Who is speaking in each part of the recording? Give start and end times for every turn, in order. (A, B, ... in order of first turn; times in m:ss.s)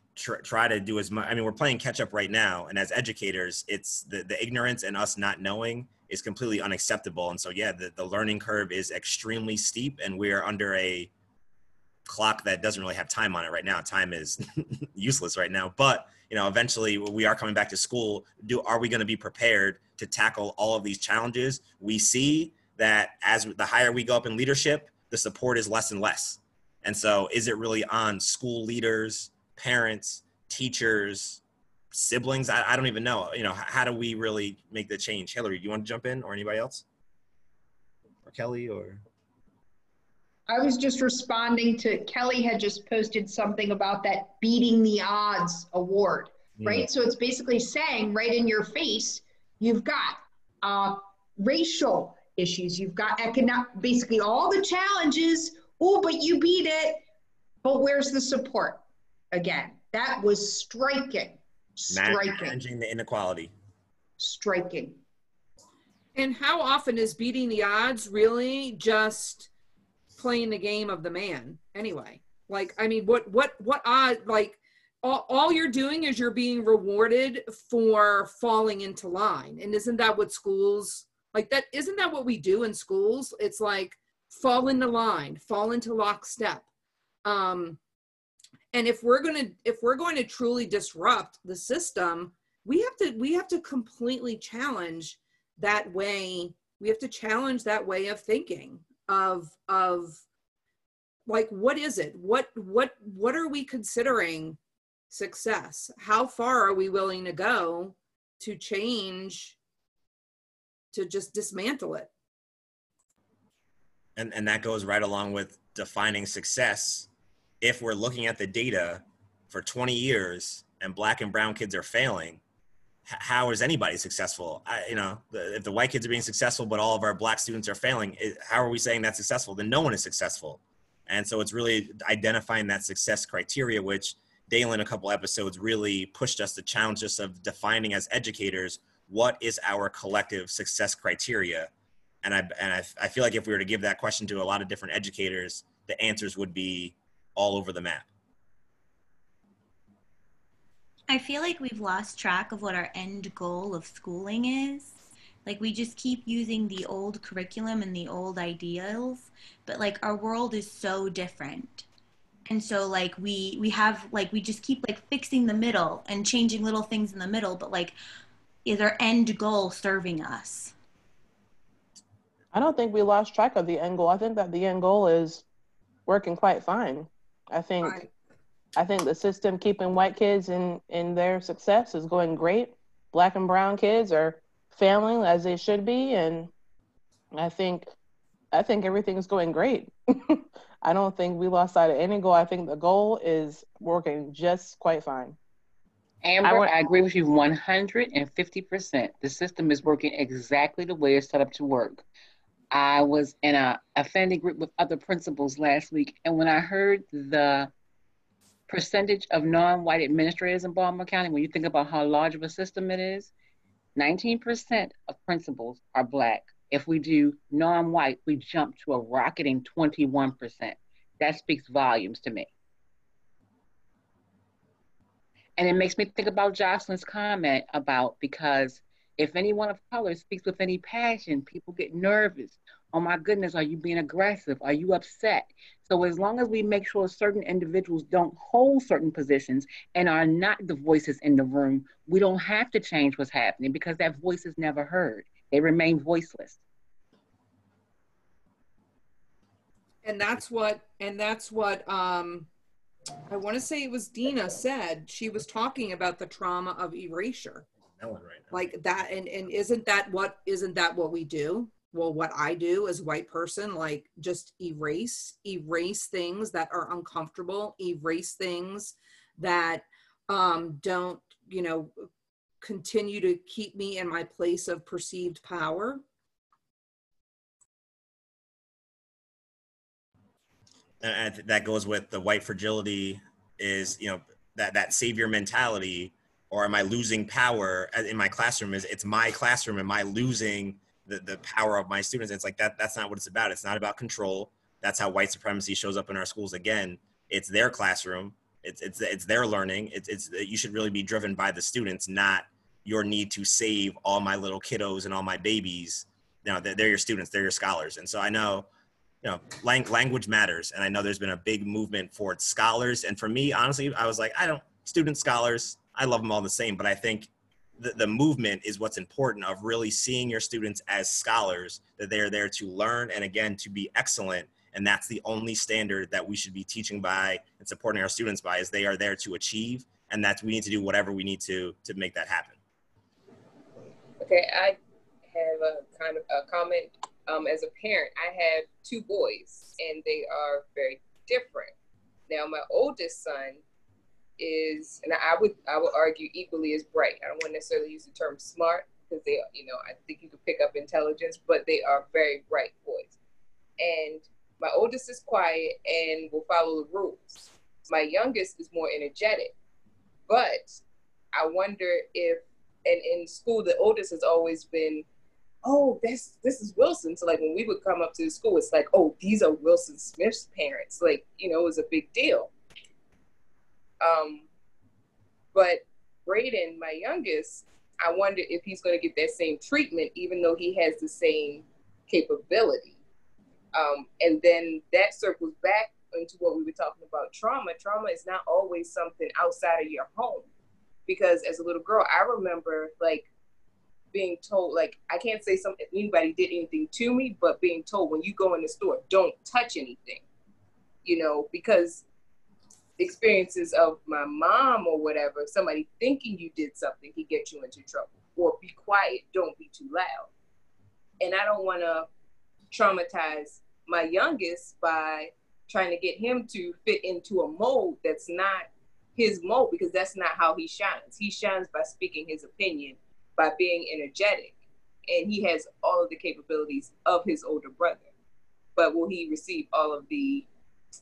0:00.2-0:11.1 A
0:12.0-0:31.4 A
0:31.9-0:36.8 A
0:38.2-0:39.0 A
0:40.5-0:57.0 B
0:46.6-0:46.9 A
0:57.6-0:58.8 B
0:59.3-1:02.6 B
1:01.9-1:03.5 A
1:04.2-1:05.0 B
1:06.1-1:09.5 C
1:10.1-1:26.6 C
1:27.2-1:27.8 C
1:28.7-1:40.2 C
1:41.3-1:44.6 C
1:45.1-1:49.6 C
1:50.9-1:52.1 C
1:54.2-1:57.1 A
1:57.6-2:02.4 A
2:03.1-2:21.7 A
2:22.2-2:28.0 A
2:31.1-2:41.8 D
2:42.5-2:48.0 D
2:48.6-2:50.7 D
2:52.5-2:55.4 E
2:56.1-2:58.1 E
2:58.8-3:06.5 E
3:07.3-3:07.9 E
3:08.5-3:15.4 E
3:16.2-3:22.0 F
3:22.7-3:27.7 F
3:28.7-3:33.3 F
3:34.0-3:42.5 F
3:45.6-4:06.6 F
4:10.0-4:12.5 C
4:13.3-4:17.7 C
4:18.0-4:18.7 A
4:18.5-4:32.0 C
4:32.6-4:36.0 C
4:41.0-5:08.7 A
5:09.2-5:32.6 A
5:34.2-5:34.8 G
5:35.3-5:41.7 G
5:42.3-5:43.6 G
5:44.4-5:53.2 G
5:53.8-5:59.5 G
6:00.3-6:00.8 G
6:01.3-6:05.0 G
6:05.6-6:12.5 G
6:14.0-6:14.4 G
6:15.5-6:23.0 G
6:23.7-6:30.5 G
6:31.1-6:33.3 G
6:34.1-6:40.2 G
6:41.0-6:42.0 G
6:43.0-6:50.3 G
6:51.2-6:52.1 G
6:52.7-7:08.1 G
7:08.8-7:10.5 G